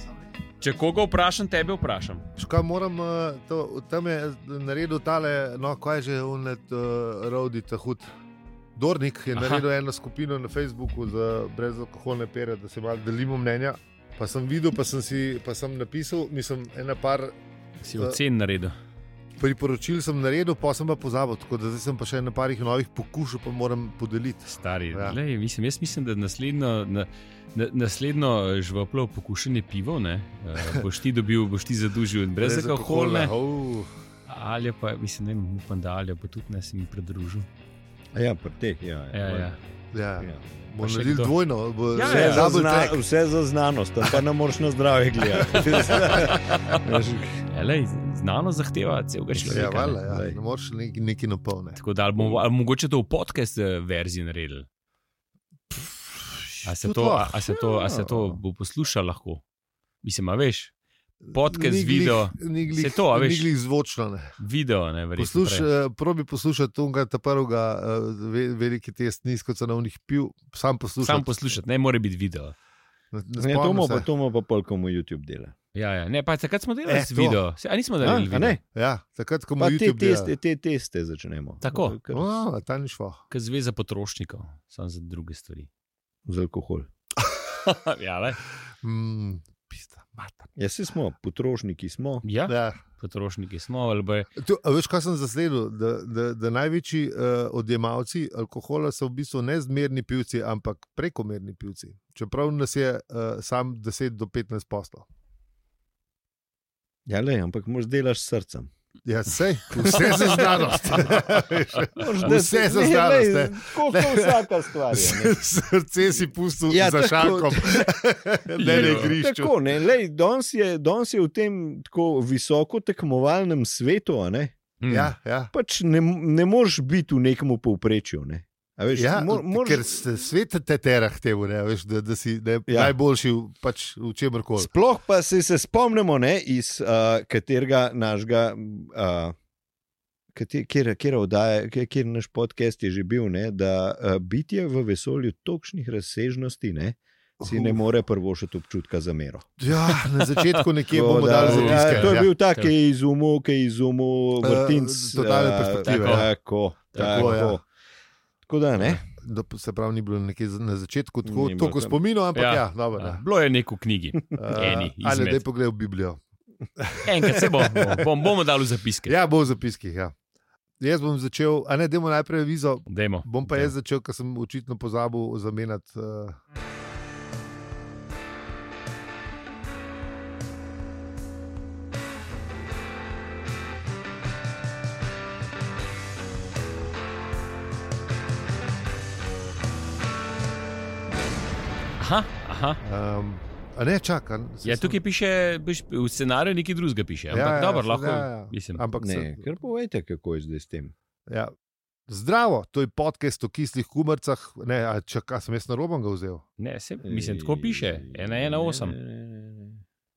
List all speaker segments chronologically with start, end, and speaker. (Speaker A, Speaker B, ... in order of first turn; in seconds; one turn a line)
Speaker A: 0.6-2.3
Speaker B: 2.4-8.1
Speaker B: 8.8-17.3
Speaker A: 9.4-9.6
Speaker A: 17.8-18.8
Speaker B: 17.9-18.2
Speaker B: 19.4-25.2
Speaker A: 24.5-33.3
Speaker B: 32.4-33.9
Speaker A: 34.3-37.5
Speaker C: 38.1-39.5
Speaker A: 39.1-39.6
Speaker B: 39.9-43.0
Speaker C: 40.2-40.5
Speaker A: 40.8-41.3
Speaker A: 41.9-42.5
Speaker C: 42.1-47.5
Speaker B: 45.5-46.3
Speaker A: 45.5-46.8
Speaker A: 47.5-50.0
Speaker C: 49.4-50.4
Speaker B: 49.5-51.8
Speaker A: 51.8-54.7
Speaker B: 55.7-57.4
Speaker A: 56.6-59.4
Speaker C: 57.8-58.4
Speaker A: 60.0-60.7
Speaker B: 61.3-64.3
Speaker A: 61.3-63.5
Speaker A: 64.4-65.7
Speaker B: 65.2-71.3
Speaker A: 71.0-72.5
Speaker B: 73.1-74.1
Speaker C: 73.4-75.5
Speaker A: 75.8-78.6
Speaker B: 76.9-77.4
Speaker C: 78.0-78.6
Speaker B: 78.7-80.3
Speaker C: 79.6-82.3
Speaker A: 81.6-82.0
Speaker B: 82.1-83.2
Speaker A: 83.3-85.7
Speaker C: 86.3-86.9
Speaker B: 87.2-87.5
Speaker A: 87.6-88.4
Speaker B: 88.8-90.5
Speaker C: 90.6-92.2
Speaker A: 92.2-94.3
Speaker B: 92.5-92.8
Speaker B: 94.4-105.1
Speaker C: 107.1-108.7
Speaker B: 109.0-119.5
Speaker C: 109.8-111.2
Speaker A: 110.8-111.1
Speaker C: 111.9-115.4
Speaker C: 116.7-117.9
Speaker A: 118.6-119.2
Speaker C: 118.7-124.5
Speaker A: 124.8-125.1
Speaker B: 124.9-125.5
Speaker C: 125.5-130.1
Speaker B: 128.9-134.7
Speaker C: 132.7-133.0
Speaker C: 134.6-139.3
Speaker C: 140.3-149.5
Speaker B: 147.4-147.8
Speaker B: 149.6-152.3
Speaker A: 149.9-150.6
Speaker C: 150.9-157.6
Speaker A: 151.4-152.7
Speaker B: 154.4-156.3
Speaker A: 155.8-156.3
Speaker B: 156.9-157.6
Speaker A: 157.0-157.4
Speaker C: 158.5-159.0
Speaker B: 159.1-163.2
Speaker C: 161.2-162.0
Speaker A: 162.3-165.4
Speaker B: 164.3-166.2
Speaker B: 166.8-168.1
Speaker A: 167.1-169.2
Speaker B: 169.1-170.2
Speaker B: 170.8-176.4
Speaker A: 172.9-173.7
Speaker A: 192.0-192.8
Speaker B: 192.8-195.0
Speaker A: 194.6-198.8
Speaker B: 197.3-199.4
Speaker C: 199.0-200.9
Speaker B: 202.1-206.4
Speaker A: 206.6-209.0
Speaker C: 207.0-209.8